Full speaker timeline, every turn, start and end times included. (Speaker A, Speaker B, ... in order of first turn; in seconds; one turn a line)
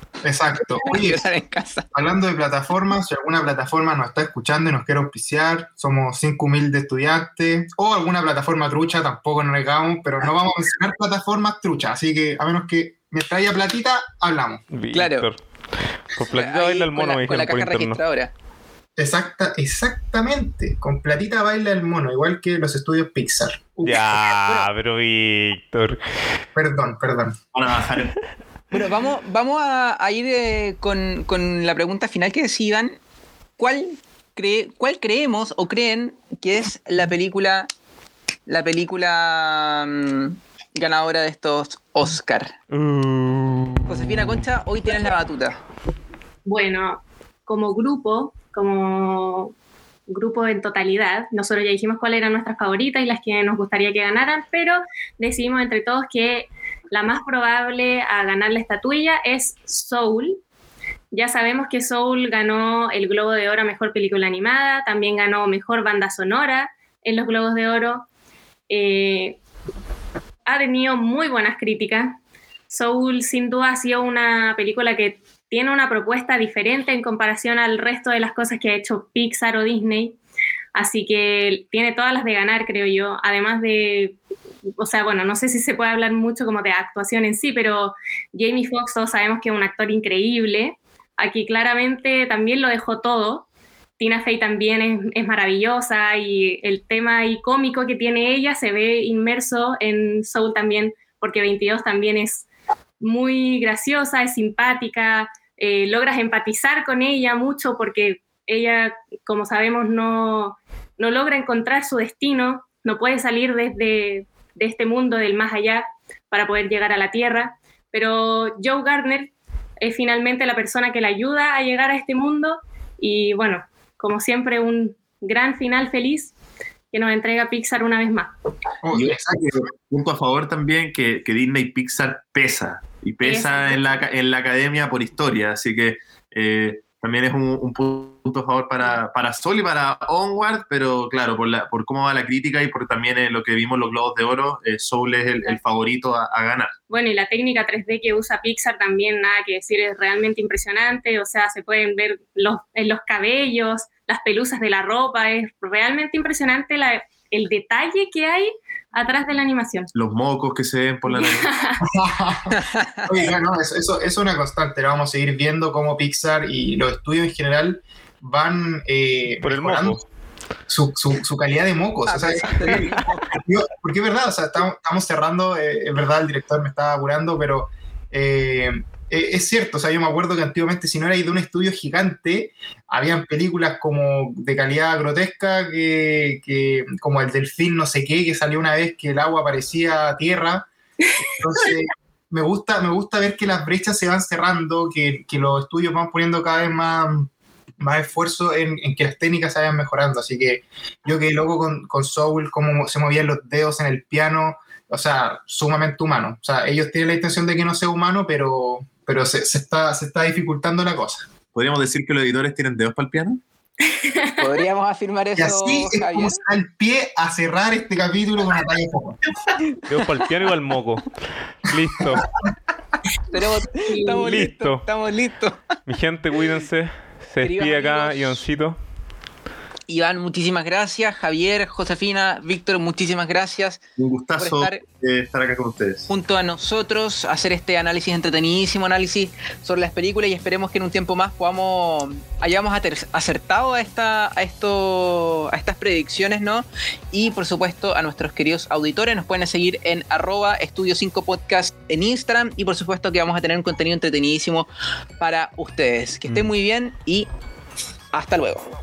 Speaker A: 0.2-1.3
Speaker B: 0.8-1.9
Speaker A: 1.9-14.6
Speaker C: 14.7-15.4
Speaker B: 14.9-15.3
Speaker C: 16.1-18.0
Speaker B: 16.2-18.3
Speaker A: 19.0-24.1
Speaker C: 23.9-26.0
Speaker B: 24.3-24.7
Speaker A: 26.6-27.4
Speaker D: 27.5-28.1
Speaker B: 28.7-33.0
Speaker B: 33.6-37.7
Speaker B: 38.5-42.6
Speaker C: 42.7-43.9
Speaker B: 43.9-45.6
Speaker E: 46.5-49.5
Speaker E: 50.1-60.4
Speaker E: 61.1-68.0
Speaker E: 68.7-69.4
Speaker E: 70.5-72.2
Speaker E: 72.7-80.2
Speaker E: 80.7-84.2
Speaker E: 84.8-93.5
Speaker E: 94.0-102.5
Speaker E: 103.0-126.3
Speaker E: 126.9-128.3
Speaker A: 128.8-129.7
Speaker D: 128.9-146.8
Speaker E: 133.2-134.0
Speaker E: 146.9-159.9
Speaker D: 159.9-161.5
Speaker E: 161.1-161.8
Speaker A: 161.8-170.0
Speaker B: 162.5-163.1
Speaker C: 169.4-170.0
Speaker A: 170.7-190.7
Speaker B: 172.1-173.2
Speaker A: 191.2-211.3
Speaker D: 211.5-213.4
Speaker E: 213.8-214.5
Speaker B: 214.4-216.4
Speaker A: 215.4-219.2
Speaker B: 219.7-219.9
Speaker C: 219.9-222.3
Speaker B: 223.3-225.6
Speaker E: 223.7-224.3
Speaker C: 224.2-224.8
Speaker C: 225.9-228.8
Speaker B: 227.4-228.4
Speaker B: 229.9-233.8
Speaker D: 234.0-236.1
Speaker B: 234.4-234.8
Speaker B: 236.1-254.7
Speaker B: 255.2-257.3
Speaker B: 258.1-258.7